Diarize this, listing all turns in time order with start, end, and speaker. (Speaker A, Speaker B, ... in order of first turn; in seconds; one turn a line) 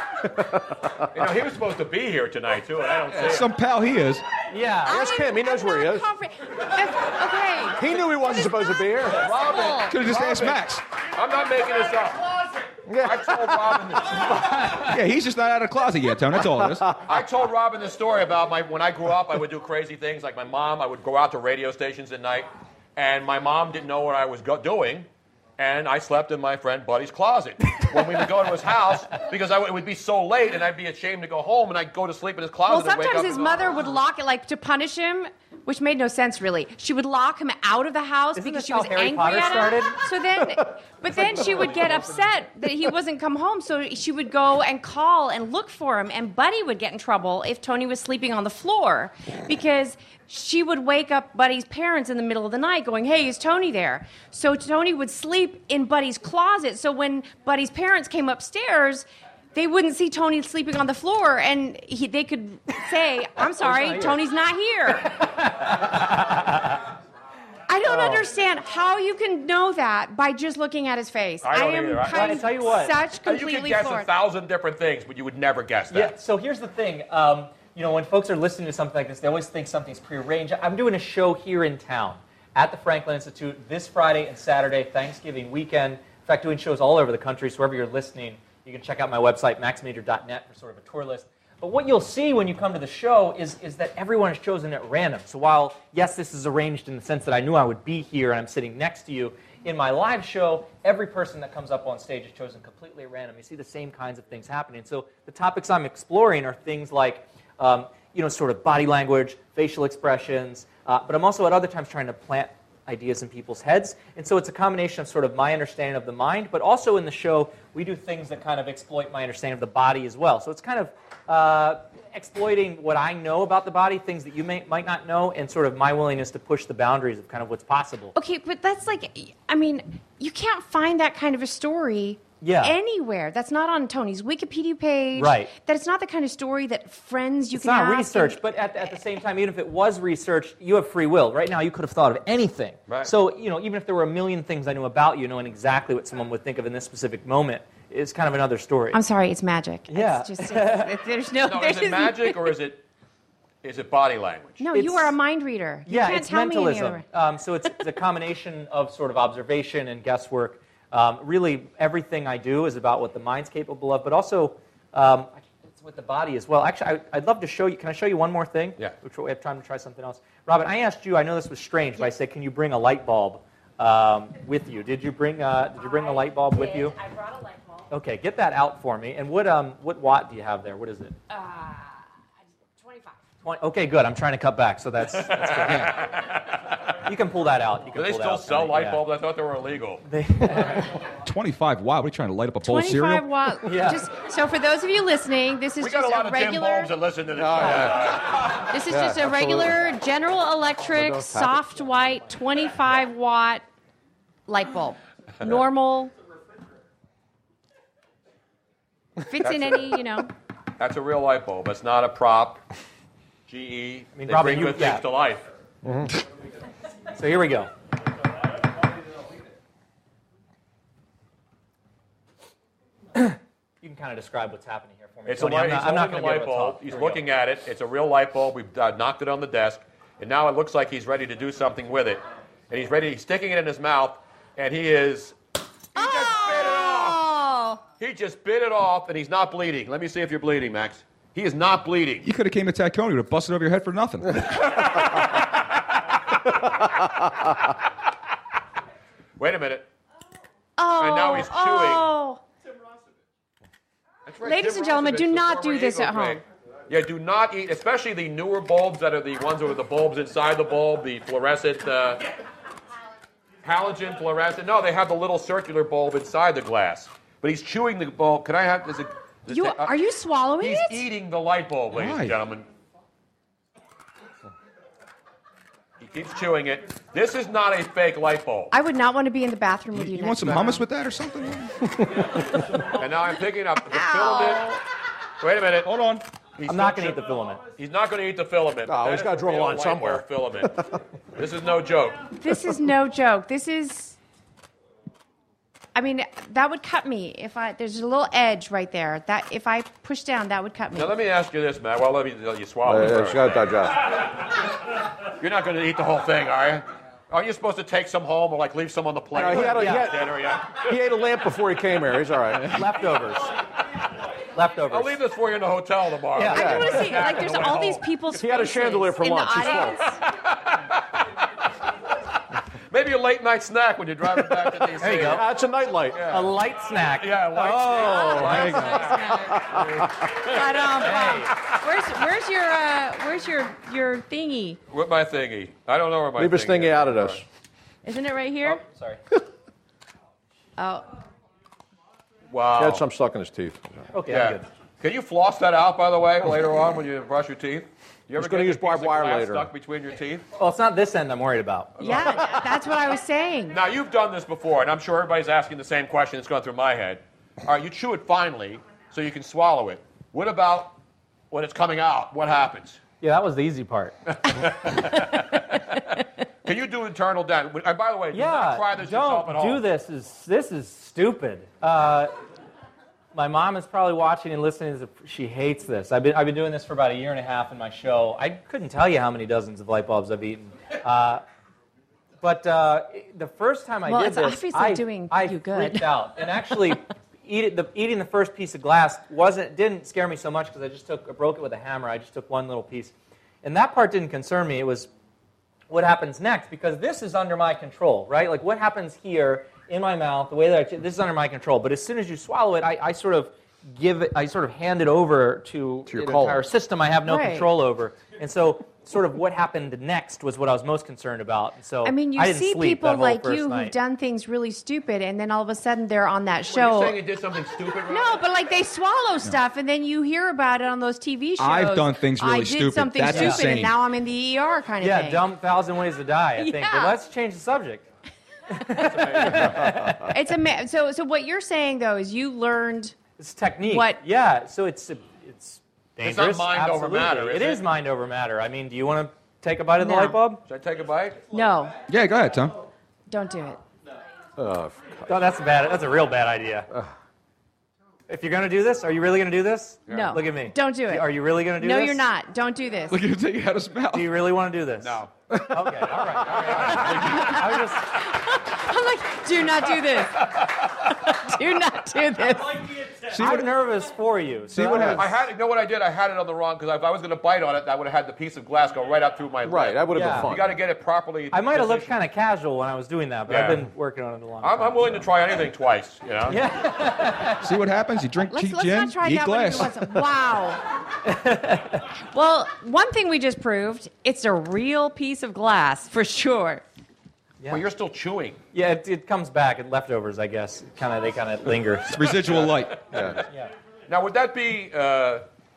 Speaker A: 0.4-1.0
Speaker B: 1.1-3.5
Speaker C: 3.1-4.2
Speaker D: 4.5-5.0
Speaker E: 4.8-9.9
Speaker A: 4.9-6.1
Speaker A: 7.8-9.2
Speaker B: 9.2-14.5
Speaker C: 9.9-10.8
Speaker A: 12.9-13.8
Speaker D: 14.3-14.9
Speaker C: 14.7-16.9
Speaker A: 16.6-17.0
Speaker B: 17.0-33.8
Speaker E: 32.7-65.2
Speaker D: 38.4-40.0
Speaker D: 41.1-42.3
Speaker D: 63.6-64.2
Speaker D: 65.2-66.7
Speaker E: 67.7-74.1
Speaker D: 67.8-68.2
Speaker B: 71.4-72.5
Speaker D: 72.1-72.9
Speaker B: 73.2-76.1
Speaker D: 75.9-128.1
Speaker E: 128.1-138.4
Speaker D: 132.4-132.7
Speaker D: 135.2-135.5
Speaker D: 137.5-149.0
Speaker E: 148.9-152.5
Speaker D: 149.9-150.9
Speaker B: 151.4-152.8
Speaker B: 153.6-154.6
Speaker E: 154.6-157.0
Speaker D: 154.7-155.1
Speaker D: 155.8-176.9
Speaker E: 175.7-177.9
Speaker D: 177.9-181.2
Speaker E: 181.3-182.0
Speaker E: 182.8-183.2
Speaker D: 183.4-186.0
Speaker B: 185.3-186.6
Speaker D: 187.0-189.0
Speaker B: 187.9-190.0
Speaker D: 190.0-190.9
Speaker C: 191.2-193.2
Speaker E: 192.6-196.9
Speaker D: 193.6-194.1
Speaker B: 195.8-198.4
Speaker A: 197.3-198.1
Speaker E: 198.6-203.6
Speaker A: 198.9-199.8
Speaker A: 200.9-201.6
Speaker E: 204.5-206.1
Speaker E: 209.3-210.3
Speaker B: 209.4-209.9
Speaker B: 210.8-212.6
Speaker B: 213.5-215.4
Speaker D: 214.1-215.0
Speaker A: 215.8-216.1
Speaker D: 217.1-217.7
Speaker D: 223.1-227.2
Speaker B: 225.2-235.3
Speaker B: 235.9-237.3
Speaker E: 235.9-237.8
Speaker B: 238.0-242.3
Speaker C: 242.2-244.5
Speaker B: 244.8-245.1
Speaker B: 249.4-249.9
Speaker E: 250.8-252.4
Speaker B: 251.0-252.1
Speaker B: 254.2-262.3
Speaker E: 254.4-256.4
Speaker B: 263.6-269.9
Speaker E: 269.5-271.0
Speaker B: 270.6-272.7
Speaker C: 271.9-272.3
Speaker B: 276.0-278.7
Speaker E: 278.7-280.8
Speaker C: 279.9-281.9
Speaker B: 282.9-284.8
Speaker E: 283.9-284.8
Speaker B: 285.4-285.9
Speaker C: 285.9-286.2
Speaker B: 286.6-290.8
Speaker D: 286.7-287.6
Speaker A: 288.9-290.9
Speaker B: 291.3-292.3
Speaker E: 292.4-294.2
Speaker E: 295.9-301.1
Speaker B: 300.9-304.2
Speaker A: 302.9-304.0
Speaker B: 305.4-310.8
Speaker A: 309.3-312.8
Speaker D: 309.7-310.1
Speaker D: 312.7-313.5
Speaker D: 314.5-315.2
Speaker B: 314.9-318.1
Speaker D: 316.4-317.1
Speaker E: 316.5-320.2
Speaker A: 316.5-316.9
Speaker A: 318.4-320.0
Speaker B: 319.6-320.9
Speaker B: 322.9-325.5
Speaker D: 325.0-325.4
Speaker A: 325.2-326.3
Speaker B: 326.1-330.9
Speaker D: 326.3-329.0
Speaker E: 328.0-329.8
Speaker A: 328.2-330.1
Speaker E: 330.3-334.8
Speaker D: 331.0-331.5
Speaker B: 334.9-337.4
Speaker A: 336.4-337.4
Speaker E: 338.0-338.8
Speaker D: 338.6-339.2
Speaker E: 340.8-341.1
Speaker B: 342.5-343.0
Speaker A: 342.7-344.1
Speaker D: 344.1-344.6
Speaker B: 344.3-350.4
Speaker A: 348.4-349.7
Speaker D: 350.6-352.2
Speaker B: 352.0-352.6
Speaker E: 352.0-353.8
Speaker B: 353.7-360.9
Speaker B: 361.5-363.0
Speaker D: 363.2-364.1
Speaker B: 364.4-365.8
Speaker B: 366.6-369.8
Speaker D: 368.3-372.3
Speaker D: 373.3-381.4
Speaker D: 382.4-395.1
Speaker E: 384.1-386.9
Speaker D: 395.9-413.9
Speaker A: 406.1-406.7
Speaker E: 407.2-407.7
Speaker E: 412.0-417.2
Speaker B: 416.7-418.4
Speaker E: 418.1-425.4
Speaker C: 421.6-423.9
Speaker D: 423.3-423.6
Speaker D: 425.0-428.1
Speaker E: 426.6-427.2
Speaker D: 428.7-430.3
Speaker B: 428.9-429.9
Speaker E: 430.3-433.2
Speaker D: 433.4-440.6
Speaker E: 433.9-434.2
Speaker B: 436.2-437.9
Speaker E: 440.0-440.4
Speaker B: 440.6-441.4
Speaker E: 441.5-442.0
Speaker C: 442.1-442.7
Speaker E: 443.3-443.8
Speaker A: 444.6-445.2
Speaker D: 445.3-446.9
Speaker D: 448.3-452.3
Speaker B: 450.1-450.4
Speaker E: 450.1-453.2
Speaker C: 453.1-454.4
Speaker D: 454.1-458.1
Speaker B: 455.0-455.3
Speaker B: 456.4-457.7
Speaker E: 457.1-463.0
Speaker C: 463.3-463.8
Speaker D: 463.3-465.3
Speaker C: 464.7-465.3
Speaker B: 465.1-472.2
Speaker A: 469.6-470.8
Speaker D: 470.1-470.5
Speaker D: 471.5-475.3
Speaker B: 473.5-473.9
Speaker B: 474.6-476.6
Speaker D: 476.5-477.7
Speaker C: 477.6-480.2
Speaker E: 478.5-480.9
Speaker D: 481.2-482.0
Speaker E: 482.3-486.8
Speaker B: 487.7-488.6
Speaker D: 488.7-492.5
Speaker C: 492.1-493.1
Speaker A: 493.1-493.4
Speaker B: 494.1-495.4